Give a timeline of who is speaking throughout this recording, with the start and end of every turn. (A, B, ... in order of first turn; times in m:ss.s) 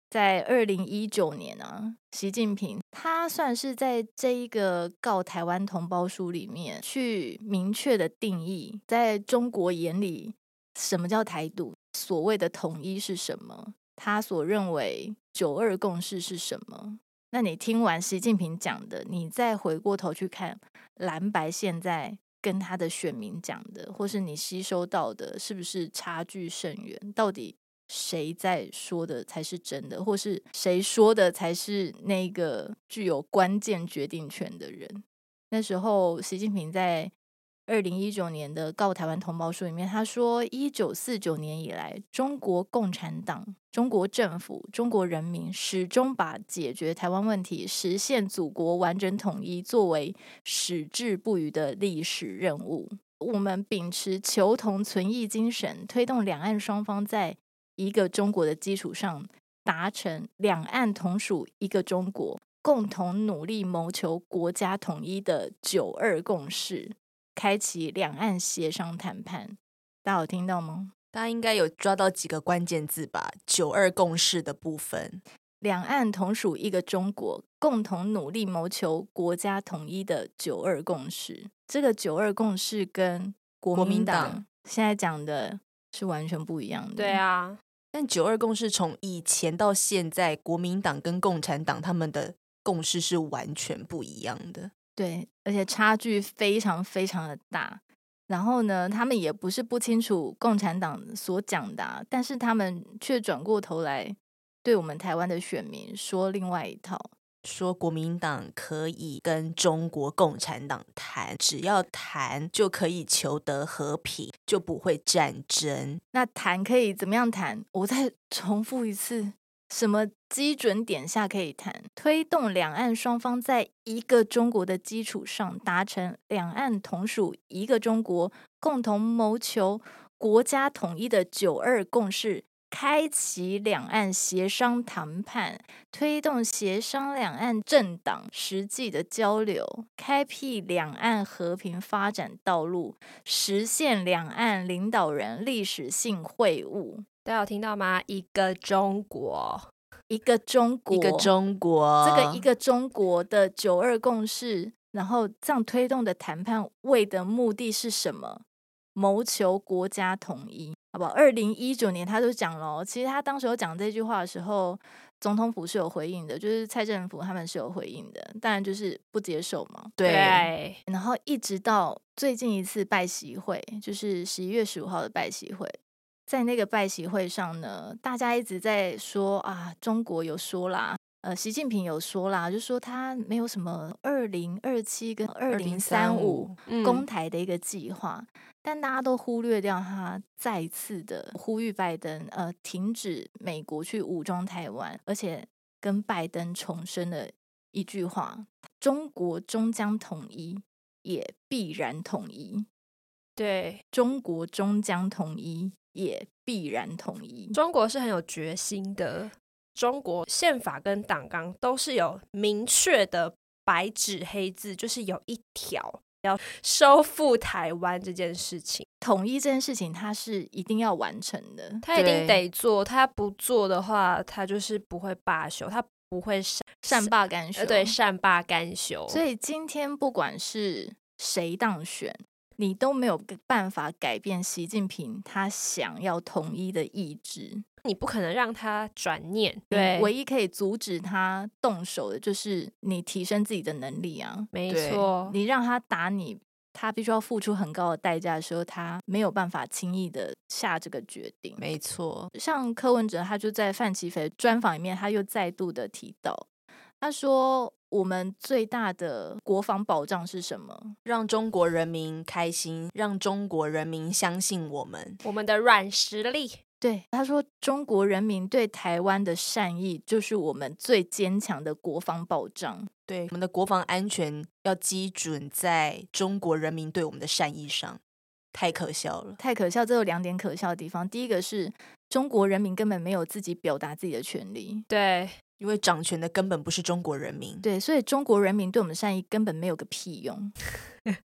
0:00.1-0:37.1 A
0:37.7-1:10.9 A
1:11.1-1:15.2 B
1:15.6-1:27.2 A
1:23.7-1:24.4 B
1:27.0-1:27.6 C
1:27.9-1:34.7 B
1:35.0-1:47.1 A
1:47.4-1:56.0 B
1:56.1-2:27.0 A
2:27.2-2:29.7 C
2:30.1-2:31.3 A
2:30.9-2:32.4 B
2:32.0-2:38.4 A
2:39.0-2:49.9 A
2:50.0-2:50.5 B
2:50.0-2:50.8 C
2:50.9-2:55.8 A
2:56.3-3:22.7 A
3:05.5-3:06.6 B
3:06.7-3:07.1 C
3:23.4-3:23.8 C
3:23.9-3:27.6 A
3:27.5-3:38.9 C
3:39.0-3:41.8 A
3:41.8-3:49.2 C
3:41.9-3:42.4 B
3:46.9-3:48.0 A
3:49.1-3:57.6 A
3:57.8-4:00.1 C
3:59.7-4:04.5 A
4:04.5-4:05.4 C
4:04.7-4:05.1 B
4:05.3-4:11.6 A
4:11.6-4:12.3 B
4:12.3-4:16.5 A
4:17.0-4:21.0 A
4:21.0-4:25.2 B
4:25.2-4:26.6 C
4:26.8-4:32.9 A
4:33.1-4:38.0 B
4:38.5-4:39.4 B
4:39.4-4:44.8 A
4:44.9-4:45.4 C
4:45.6-4:47.6 B
4:47.6-4:50.6 A